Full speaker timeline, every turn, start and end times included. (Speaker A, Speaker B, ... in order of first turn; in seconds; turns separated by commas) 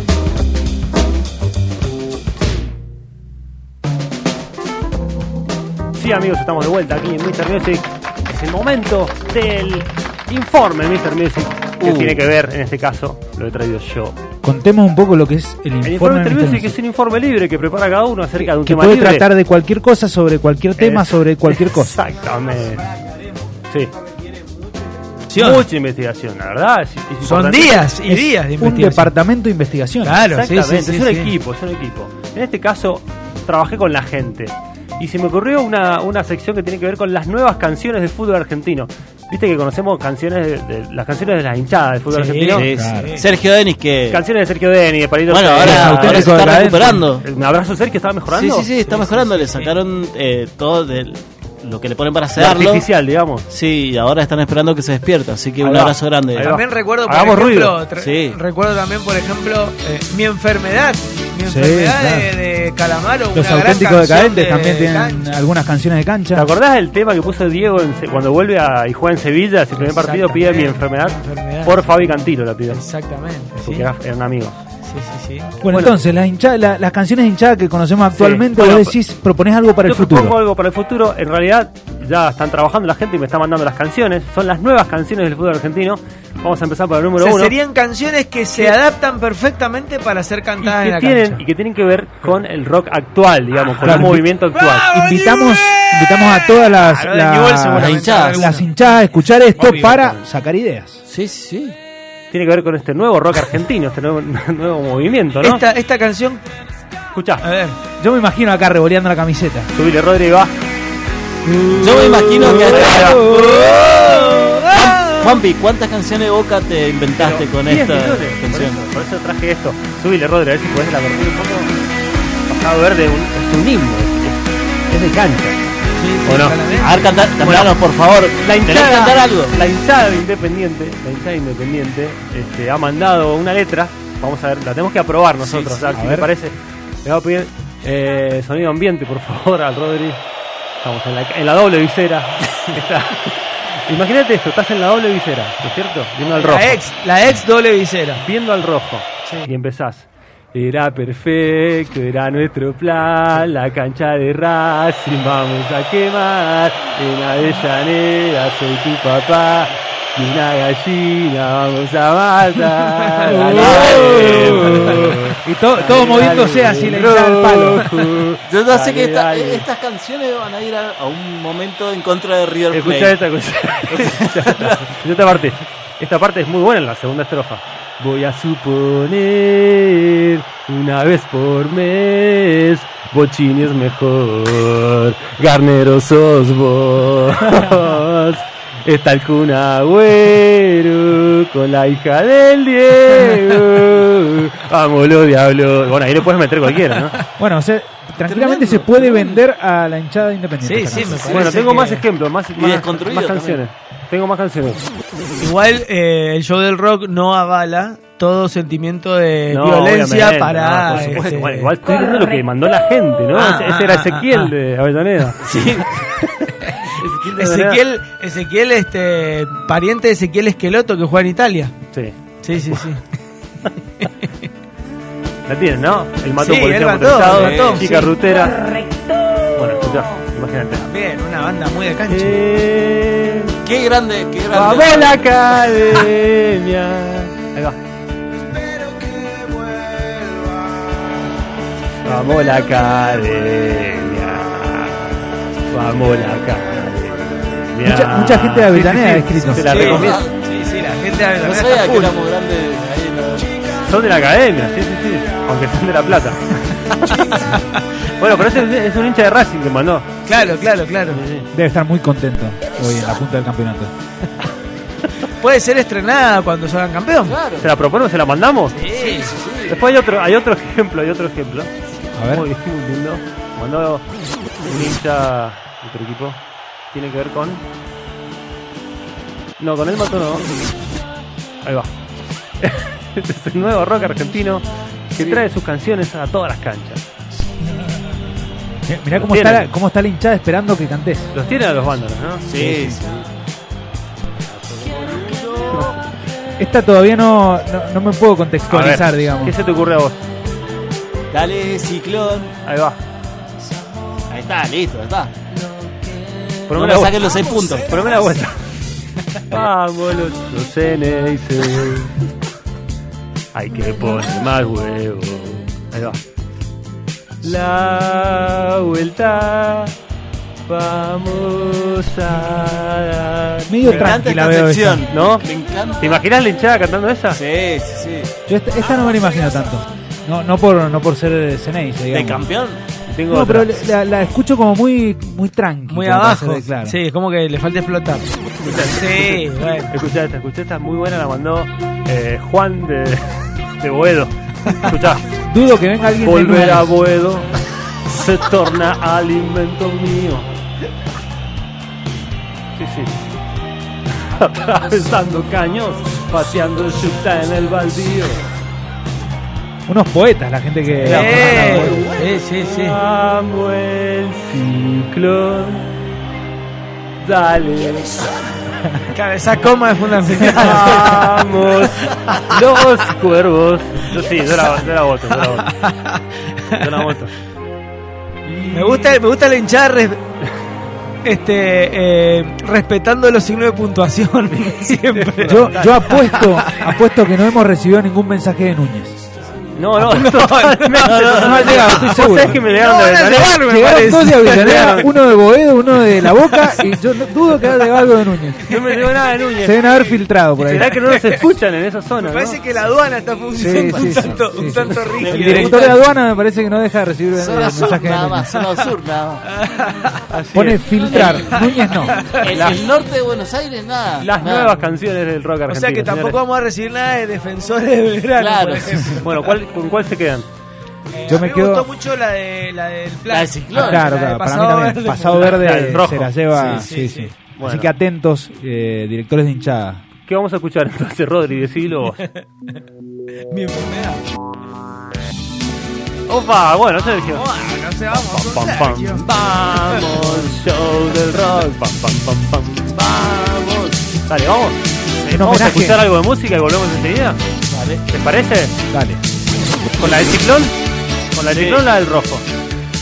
Speaker A: 6.0-14.2, Speaker B: 11.8-12.2, Speaker C: 14.4-16.8, Speaker A: 15.8-19.3, Speaker C: 18.4-22.0, Speaker A: 20.8-22.9, Speaker D: 25.3-25.7, Speaker A: 25.4-27.9, Speaker D: 27.2-29.1, Speaker C: 28.1-30.2, Speaker D: 30.0-31.3, Speaker A: 30.2-42.7, Speaker D: 42.1-43.2, Speaker B: 42.5-44.2, Speaker C: 42.7-43.1, Speaker A: 44.1-48.7, Speaker B: 45.3-47.2, Speaker C: 45.6-47.0, Speaker B: 48.3-52.9, Speaker D: 48.8-49.7, Speaker A: 52.4-53.5, Speaker B: 53.5-56.6, Speaker A: 55.6-57.8, Speaker D: 56.4-65.4, Speaker B: 58.0-58.4, Speaker C: 61.5-62.3, Speaker C: 63.3-66.5, Speaker A: 66.3-72.8, Speaker D: 69.8-71.9, Speaker D: 72.7-73.9, Speaker A: 73.6-74.6, Speaker D: 74.9-75.6, Speaker C: 75.6-80.4, Speaker A: 75.7-76.0, Speaker A: 78.1-79.0, Speaker A: 79.8-87.5, Speaker D: 87.2-91.4, Speaker A: 90.6-94.9, Speaker D: 93.8-94.1, Speaker C: 93.8-94.3, Speaker D: 94.7-98.7, Speaker C: 94.9-101.0, Speaker B: 97.8-98.5, Speaker A: 99.6-100.2, Speaker B: 101.1-101.8, Speaker A: 102.3-105.6, Speaker D: 105.4-106.4, Speaker A: 107.1-107.5, Speaker D: 107.4-107.8, Speaker C: 108.0-109.7, Speaker A: 109.7-110.6, Speaker A: 111.7-113.3, Speaker B: 111.8-113.2, Speaker D: 112.2-115.4, Speaker B: 114.7-118.8, Speaker A: 117.2-121.7, Speaker A: 122.5-125.6, Speaker D: 126.0-127.0, Speaker A: 126.2-126.8, Speaker B: 126.8-129.5, Speaker A: 127.4-127.8, Speaker A: 128.4-140.2, Speaker B: 135.4-135.9, Speaker C: 135.9-136.3, Speaker A: 140.8-146.8, Speaker D: 146.3-148.2, Speaker A: 148.2-169.6, Speaker C: 163.3-167.9, Speaker B: 163.4-164.7, Speaker B: 168.4-173.2, Speaker A: 172.7-197.2, Speaker B: 173.9-174.8, Speaker C: 197.4-201.5, Speaker B: 198.2-199.4, Speaker D: 200.6-202.0, Speaker A: 201.2-204.8, Speaker B: 202.5-203.6, Speaker D: 205.4-211.7, Speaker A: 209.5-215.5, Speaker D: 213.3-214.5, Speaker B: 215.4-216.0, Speaker A: 216.2-217.8, Speaker D: 216.7-221.7, Speaker D: 222.4-223.0, Speaker A: 225.5-228.8, Speaker D: 226.4-228.2, Speaker B: 227.3-227.9, Speaker A: 229.5-230.8, Speaker D: 230.8-232.4, Speaker A: 232.1-233.6, Speaker B: 233.6-235.6, Speaker A: 234.5-237.8, Speaker D: 238.6-240.5, Speaker A: 242.1-250.2, Speaker C: 247.8-249.9, Speaker D: 249.6-252.2, Speaker B: 251.4-253.5, Speaker A: 253.8-257.6, Speaker D: 257.3-257.8, Speaker A: 258.1-260.4, Speaker D: 260.2-261.2, Speaker A: 261.1-261.5, Speaker C: 261.5-263.9, Speaker D: 265.4-267.4, Speaker B: 267.2-267.7, Speaker A: 267.6-268.8, Speaker D: 268.8-269.3, Speaker B: 268.9-269.8, Speaker A: 269.7-274.1, Speaker C: 272.2-272.5, Speaker A: 274.6-276.4, Speaker A: 276.9-277.6, Speaker A: 279.6-280.5, Speaker A: 281.6-281.9, Speaker A: 282.6-287.0, Speaker B: 285.1-285.4, Speaker C: 288.9-291.3, Speaker A: 289.1-289.7, Speaker A: 291.3-293.0, Speaker B: 292.4-293.3, Speaker B: 294.5-295.9, Speaker C: 296.6-299.5, Speaker A: 298.7-300.2, Speaker B: 301.3-302.5, Speaker A: 302.6-303.0, Speaker B: 304.3-308.0, Speaker A: 306.7-308.6, Speaker A: 309.5-312.1, Speaker A: 313.5-316.2, Speaker A: 317.4-319.9, Speaker A: 320.6-324.2, Speaker C: 323.7-325.1, Speaker B: 323.8-326.2, Speaker A: 325.1-325.5, Speaker A: 326.0-327.4, Speaker B: 327.3-328.3, Speaker C: 328.5-332.5, Speaker B: 332.1-332.8, Speaker A: 333.1-333.9, Speaker C: 333.3-337.0, Speaker D: 335.9-339.9, Speaker A: 338.6-345.2, Speaker C: 345.5-346.9, Speaker A: 346.2-347.5, Speaker A: 348.1-350.5, Speaker A: 352.8-353.1, Speaker A: 354.2-358.4, Speaker C: 359.9-362.1, Speaker D: 361.0-363.0, Speaker A: 361.1-365.9, Speaker A: 367.2-368.3, Speaker D: 369.1-371.3, Speaker A: 370.4-375.7, Speaker D: 375.3-376.8, Speaker A: 376.8-377.3, Speaker A: 378.4-379.2, Speaker D: 378.7-380.2, Speaker D: 381.2-386.9, Speaker A: 384.5-386.0, Speaker C: 385.5-389.1, Speaker A: 389.8-393.6, Speaker D: 390.0-391.1, Speaker B: 391.1-391.9, Speaker C: 391.2-392.6, Speaker D: 391.8-395.1, Speaker C: 393.6-398.8, Speaker A: 394.4-395.1, Speaker D: 396.2-396.9, Speaker A: 398.7-400.0, Speaker C: 399.6-400.9, Speaker A: 400.6-402.6, Speaker D: 400.8-401.4, Speaker D: 402.2-405.9, Speaker C: 403.6-408.5, Speaker A: 404.7-405.9, Speaker B: 405.1-406.0, Speaker B: 407.3-409.4, Speaker D: 407.7-408.0, Speaker D: 408.5-408.9, Speaker D: 409.5-410.2, Speaker A: 410.3-411.2, Speaker C: 410.5-412.2, Speaker D: 411.2-412.6, Speaker A: 412.4-412.8, Speaker B: 412.4-414.8, Speaker A: 414.2-416.4, Speaker D: 415.7-419.5, Speaker B: 418.3-419.0, Speaker A: 419.1-420.5, Speaker D: 421.1-425.7, Speaker C: 421.3-421.9, Speaker B: 423.3-424.1, Speaker C: 423.7-430.0, Speaker A: 425.5-426.8, Speaker D: 426.6-427.3, Speaker A: 427.6-427.9, Speaker A: 430.2-432.2, Speaker D: 433.5-434.2, Speaker A: 436.3-437.5, Speaker D: 437.3-440.2, Speaker A: 438.1-444.8, Speaker B: 439.2-440.5, Speaker C: 445.3-446.0, Speaker A: 445.3-447.4, Speaker B: 447.7-448.1, Speaker A: 448.1-448.7, Speaker C: 448.9-449.2, Speaker A: 449.9-450.8, Speaker A: 451.3-452.4, Speaker B: 451.5-451.8